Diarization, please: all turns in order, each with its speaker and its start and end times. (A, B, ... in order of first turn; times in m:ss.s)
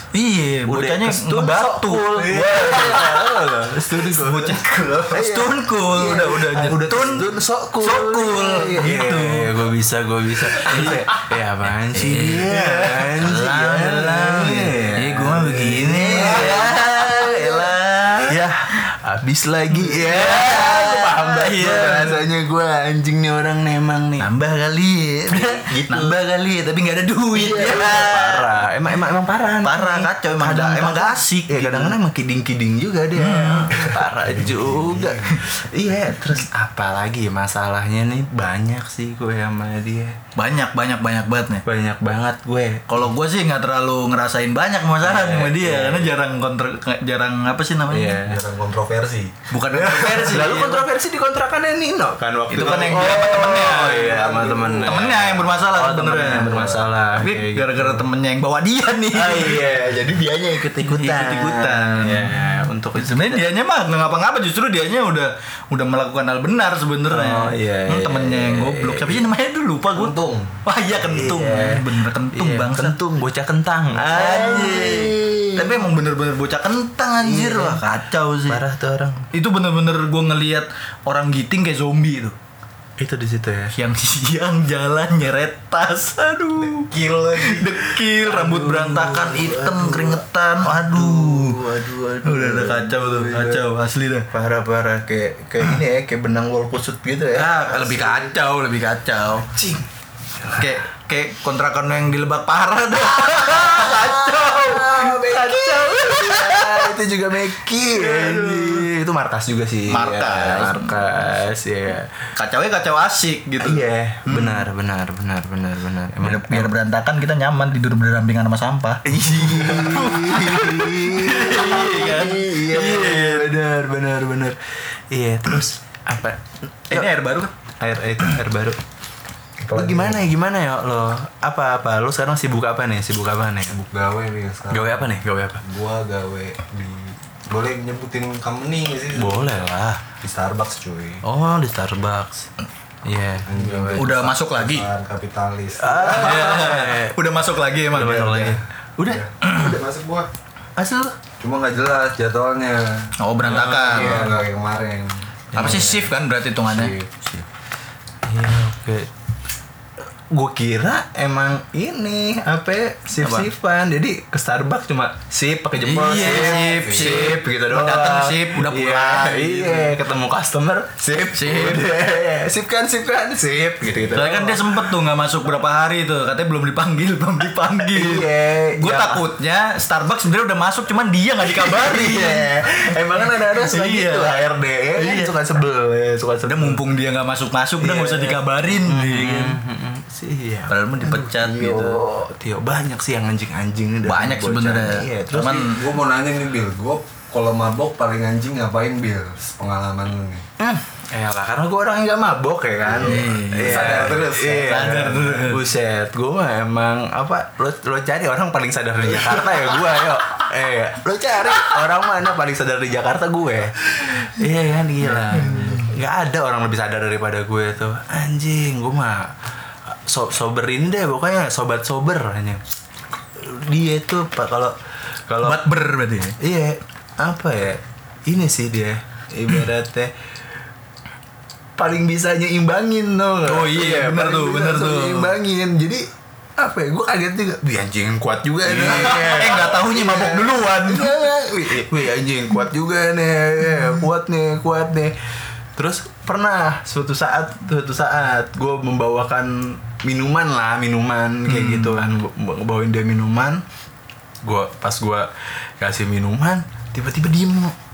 0:00.1-0:09.6 A
0:00.7-0:04.6 B
0:05.1-0:17.7 B
0:10.4-0:11.4 A
0:11.9-0:18.5 A
0:16.2-0:16.6 C
0:18.2-0:24.3 B
0:19.7-0:22.3 A
0:24.2-0:28.6 A
0:25.3-0:26.2 B
0:27.3-0:40.2 B
0:29.6-0:32.0 A
0:33.1-0:34.0 A
0:34.1-0:35.4 C
0:40.3-0:41.6 A
0:41.6-0:43.1 B
0:42.9-0:48.3 A
0:45.0-0:46.1 B
0:47.9-0:48.4 B
0:48.2-0:50.3 C
0:49.5-0:50.8 A
0:49.9-0:58.0 B
0:52.5-0:54.2 A
0:53.2-0:55.3 C
0:54.8-1:10.1 A
0:59.1-1:03.4 B
1:07.1-1:09.2 B
1:09.9-1:10.6 C
1:10.6-1:13.0 A
1:11.0-1:15.9 B
1:14.0-1:18.6 A
1:17.2-1:17.8 B
1:18.4-1:19.3 B
1:19.3-1:22.3 A
1:23.0-1:23.7 B
1:23.7-1:34.3 A
1:26.9-1:33.6 B
1:26.9-1:27.5 C
1:34.3-1:38.3 B
1:37.3-1:39.6 A
1:39.5-1:39.8 B
1:40.4-1:40.7 B
1:40.5-1:47.0 A
1:43.1-1:52.1 B
1:47.9-1:48.9 A
1:49.9-1:51.2 A
1:52.4-1:54.6 A
1:53.6-1:56.7 B
1:56.2-2:03.5 A
1:59.0-2:07.1 B
2:06.9-2:07.5 A
2:07.8-2:08.8 B
2:09.7-2:13.8 B
2:09.7-2:10.2 C
2:13.7-2:19.5 C
2:14.7-2:15.6 B
2:19.1-2:20.0 B
2:20.2-2:21.2 C
2:21.2-2:22.5 B
2:23.0-2:24.1 B
2:23.5-2:26.6 C
2:24.0-2:24.9 A
2:25.8-2:27.2 B
2:26.1-2:28.6 A
2:27.9-2:29.7 B
2:29.0-2:30.3 C
2:29.5-2:29.7 A
2:30.8-2:31.2 B
2:31.4-2:36.0 C
2:33.2-2:34.3 A
2:33.4-2:34.3 B
2:35.5-2:36.0 B
2:35.5-2:37.5 A
2:36.7-2:37.1 C
2:38.2-2:39.1 B
2:40.3-2:54.7 B
2:43.2-2:43.5 A
2:45.8-2:49.9 A
2:46.0-2:47.4 C
2:51.3-2:52.0 A
2:54.1-3:05.3 A
2:57.9-2:59.2 B
3:01.4-3:06.8 B
3:06.4-3:09.6 A
3:07.8-3:15.7 B
3:10.7-3:12.0 A
3:14.0-3:15.8 A
3:15.6-3:20.4 C
3:20.6-3:39.3 B
3:22.8-3:25.5 C
3:22.9-3:25.6 A
3:35.3-3:35.9 A
3:35.3-3:35.8 C
3:39.9-3:42.6 B
3:43.3-3:44.7 B
3:45.3-3:45.6 B
3:45.4-3:46.4 A
3:46.4-3:50.1 B
3:51.8-4:05.1 B
3:53.4-3:55.4 A
3:58.6-4:01.8 A
4:03.6-4:04.0 A
4:05.8-4:13.6 B
4:11.5-4:12.0 A
4:14.4-4:17.7 B